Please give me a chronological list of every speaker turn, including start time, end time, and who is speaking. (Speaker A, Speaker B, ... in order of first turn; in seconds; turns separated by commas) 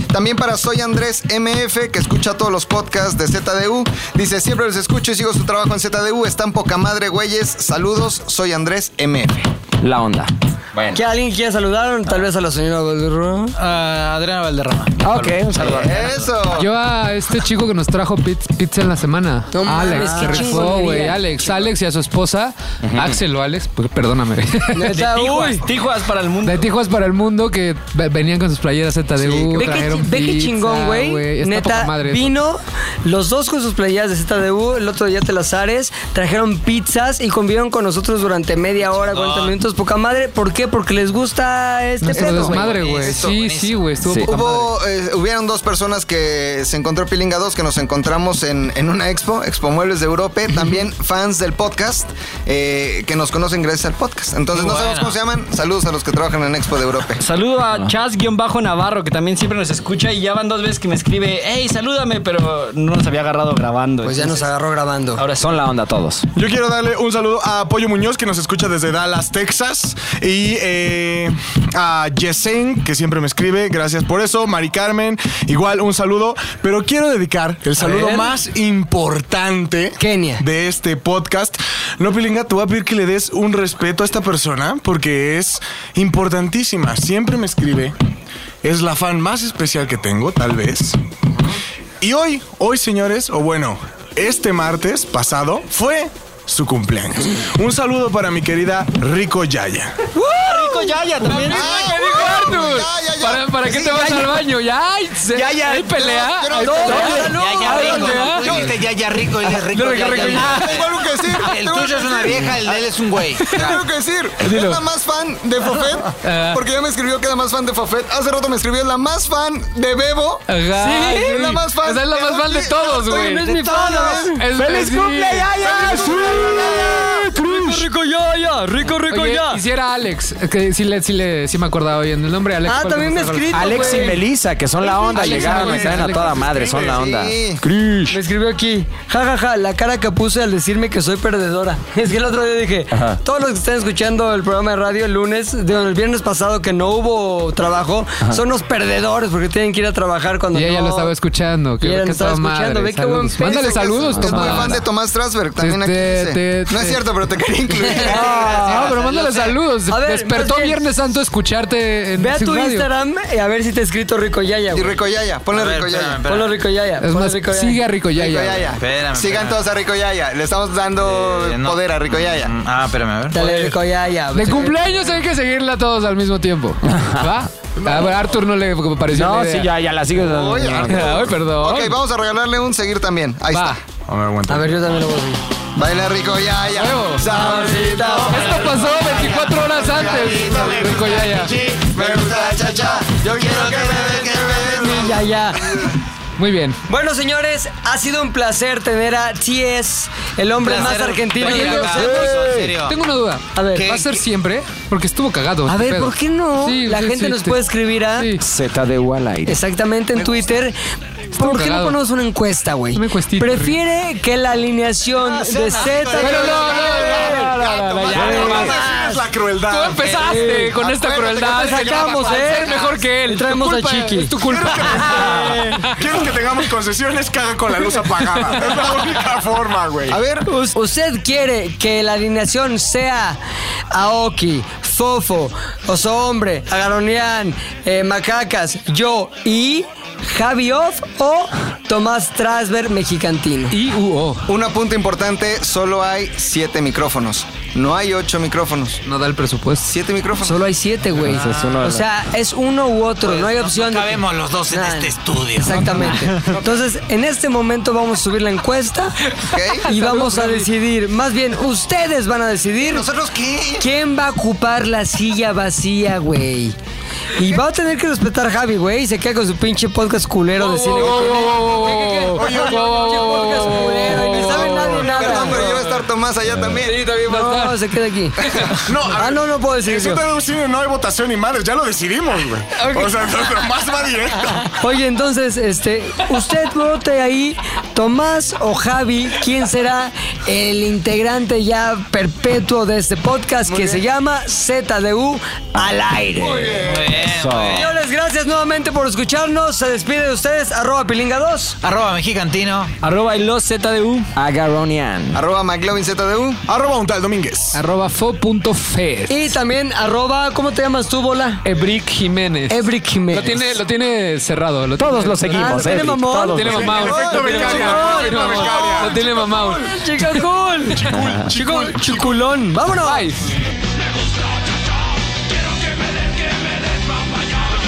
Speaker A: 0.1-9.5, Speaker B: 9.8-11.0, Speaker C: 10.9-13.5, Speaker D: 13.6-16.1, Speaker B: 15.0-16.0, Speaker A: 15.6-16.7, Speaker E: 16.5-25.0, Speaker C: 19.5-21.7, Speaker B: 22.8-23.2, Speaker C: 24.7-25.6, Speaker F: 24.9-26.6, Speaker E: 26.4-32.4, Speaker A: 29.2-29.8, Speaker C: 29.5-42.9, Speaker F: 39.0-39.5, Speaker E: 42.0-44.7, Speaker A: 42.1-43.4, Speaker D: 42.8-43.8, Speaker B: 44.0-44.3, Speaker A: 44.2-57.2, Speaker D: 54.5-55.2, Speaker F: 57.2-64.5, Speaker C: 64.0-65.2, Speaker F: 65.2-65.5, Speaker B: 65.3-66.3, Speaker G: 66.3-87.9, Speaker C: 77.8-78.3, Speaker C: 80.0-80.4, Speaker G: 88.6-91.0, Speaker G: 92.0-100.0, Speaker C: 100.2-101.4, Speaker E: 100.7-108.6, Speaker F: 101.1-101.4, Speaker A: 101.5-104.4, Speaker B: 105.3-105.9, Speaker A: 105.7-107.3, Speaker C: 106.5-108.6, Speaker D: 107.2-113.8, Speaker A: 108.4-108.7, Speaker E: 109.6-110.8, Speaker A: 110.1-112.9, Speaker A: 113.5-124.4, Speaker E: 113.5-113.7, Speaker E: 114.4-114.8, Speaker E: 116.2-116.6, Speaker E: 120.5-127.8, Speaker C: 120.8-121.2, Speaker C: 123.1-124.5, Speaker B: 125.1-125.5, Speaker A: 125.6-127.1, Speaker G: 125.7-126.7, Speaker C: 125.8-129.6, Speaker E: 129.1-134.2, Speaker C: 132.6-134.2, Speaker B: 133.5-138.1, Speaker E: 134.8-136.5, Speaker C: 135.3-135.9, Speaker G: 136.5-136.9, Speaker A: 136.7-137.6, Speaker C: 138.1-151.1, Speaker B: 142.9-143.2, Speaker E: 150.5-154.8, Speaker C: 151.8-154.4, Speaker A: 153.4-159.0, Speaker B: 154.2-154.8, Speaker E: 155.6-157.0, Speaker C: 157.9-158.9, Speaker D: 158.1-159.5, Speaker E: 158.3-162.9, Speaker C: 159.9-160.8, Speaker C: 162.2-164.9, Speaker A: 164.7-166.2, Speaker D: 165.5-166.5, Speaker C: 166.3-167.9, Speaker E: 167.0-168.7, Speaker A: 168.1-172.5, Speaker D: 168.8-169.6, Speaker D: 171.0-173.6, Speaker C: 173.3-175.1, Speaker E: 174.3-179.7, Speaker B: 176.9-177.3, Speaker G: 177.8-178.3, Speaker B: 179.1-181.3, Speaker A: 180.1-183.8, Speaker E: 180.7-181.9, Speaker E: 183.5-183.8, Speaker G: 184.1-184.8, Speaker C: 184.5-185.4, Speaker A: 185.7-195.9, Speaker E: 186.7-187.3, Speaker C: 187.2-188.6, Speaker E: 188.3-191.5, Speaker D: 193.4-194.7, Speaker C: 194.7-195.8, Speaker E: 196.4-196.8, Speaker C: 196.9-202.4, Speaker D: 200.6-202.9, Speaker E: 201.4-207.6, Speaker B: 202.2-202.6, Speaker C: 203.6-204.0, Speaker D: 203.8-204.1, Speaker C: 205.7-208.3, Speaker E: 208.1-208.4, Speaker B: 208.4-209.6, Speaker C: 209.5-210.8, Speaker C: 211.3-217.6, Speaker E: 211.4-212.0, Speaker E: 212.9-213.8, Speaker D: 215.2-216.3, Speaker A: 215.8-218.1, Speaker E: 216.2-218.8, Speaker G: 216.8-217.4, Speaker C: 218.1-219.2, Speaker G: 218.1-220.5, Speaker E: 219.7-226.0, Speaker C: 220.2-220.8, Speaker A: 220.6-223.1, Speaker C: 221.4-225.8, Speaker G: 221.6-222.1, Speaker G: 224.4-230.2, Speaker A: 230.1-230.5, Speaker C: 230.5-233.4, Speaker C: 233.9-243.8, Speaker E: 243.7-244.5, Speaker A: 244.5-249.0, Speaker E: 249.1-249.9, Speaker A: 249.8-250.6, Speaker C: 250.4-254.2, Speaker B: 251.2-252.0, Speaker D: 251.3-251.8, Speaker D: 253.2-256.3, Speaker C: 254.7-259.1, Speaker A: 259.5-259.9, Speaker C: 259.8-263.1, Speaker E: 259.9-260.7, Speaker A: 262.8-263.9, Speaker C: 263.8-266.8, Speaker C: 267.3-275.8, Speaker E: 270.6-275.7, Speaker G: 271.1-271.7, Speaker G: 272.4-273.1, Speaker A: 274.8-277.1, Speaker E: 276.8-277.8, Speaker C: 277.2-280.2, Speaker E: 278.5-278.7, Speaker G: 278.7-284.8, Speaker C: 282.8-283.1, Speaker C: 284.7-296.7, Speaker G: 296.4-297.0, Speaker B: 296.6-297.9, Speaker D: 296.8-297.9, Speaker C: 297.7-301.8, Speaker D: 301.8-302.9, Speaker F: 303.0-304.3, Speaker B: 304.4-305.4, Speaker A: 305.3-306.6, Speaker G: 306.7-307.8, Speaker E: 307.7-309.4, Speaker C: 309.3-311.6, Speaker E: 311.6-320.5, Speaker C: 312.7-313.8, Speaker B: 315.0-317.1, Speaker C: 315.5-323.3, Speaker G: 316.7-319.2, Speaker G: 321.0-322.5, Speaker E: 323.0-323.4